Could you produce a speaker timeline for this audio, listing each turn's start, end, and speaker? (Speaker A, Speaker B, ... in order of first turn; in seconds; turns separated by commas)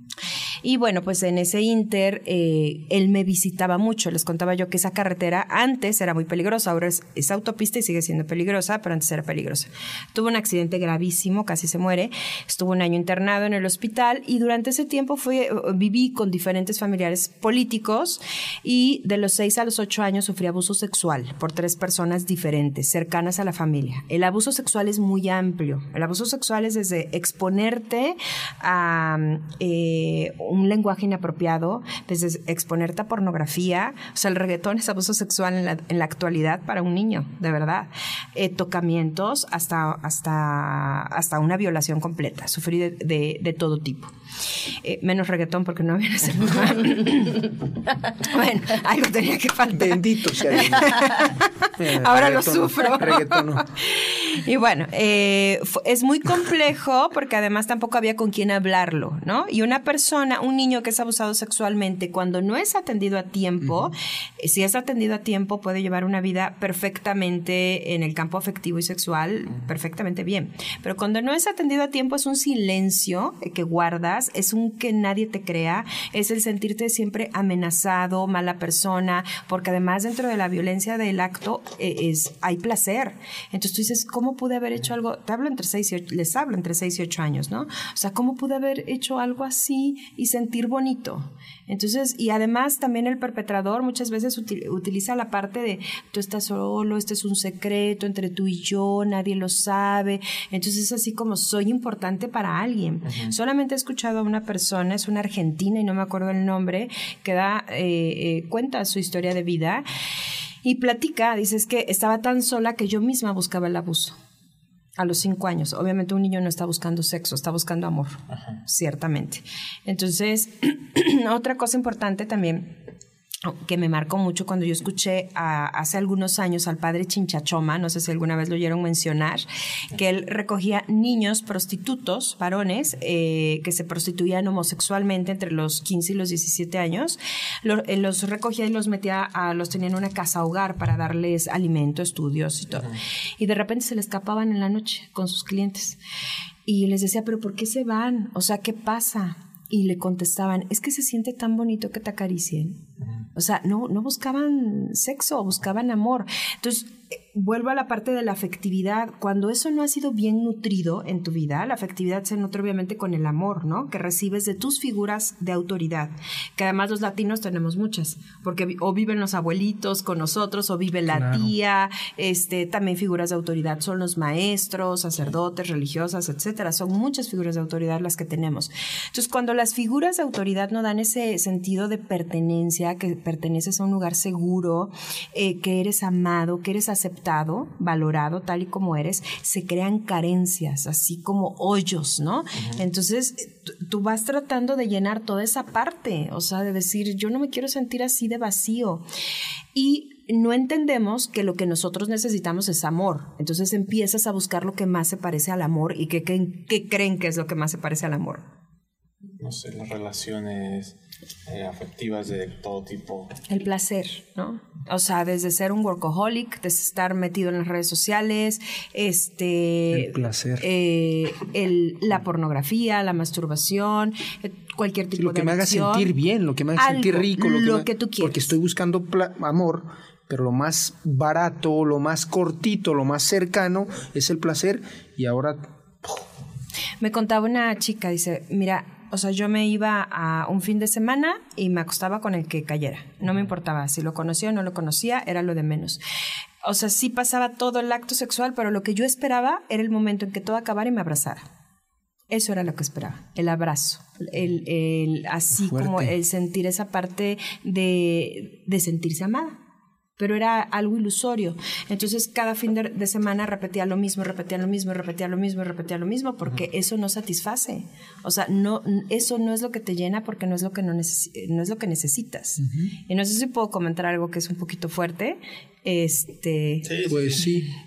Speaker A: 0.6-44.1, Speaker A: 44.6-47.6, Speaker A: 48.1-109.8, Speaker B: 49.7-53.7, Speaker B: 63.6-63.9, Speaker C: 103.0-103.3, Speaker A: 110.6-114.2, Speaker A: 115.0-122.8, Speaker A: 123.4-146.0, Speaker A: 146.7-152.8, Speaker A: 153.3-199.0, Speaker B: 171.1-171.5, Speaker A: 199.7-208.4, Speaker C: 209.4-213.4, Speaker A: 213.5-226.1, Speaker B: 219.9-220.6, Speaker B: 225.2-236.2, Speaker A: 226.8-228.5, Speaker A: 237.0-246.0, Speaker A: 246.6-251.4, Speaker A: 252.3-259.6, Speaker B: 255.6-256.1, Speaker A: 260.2-277.1, Speaker B: 272.6-272.9, Speaker C: 276.9-277.4, Speaker B: 277.1-277.7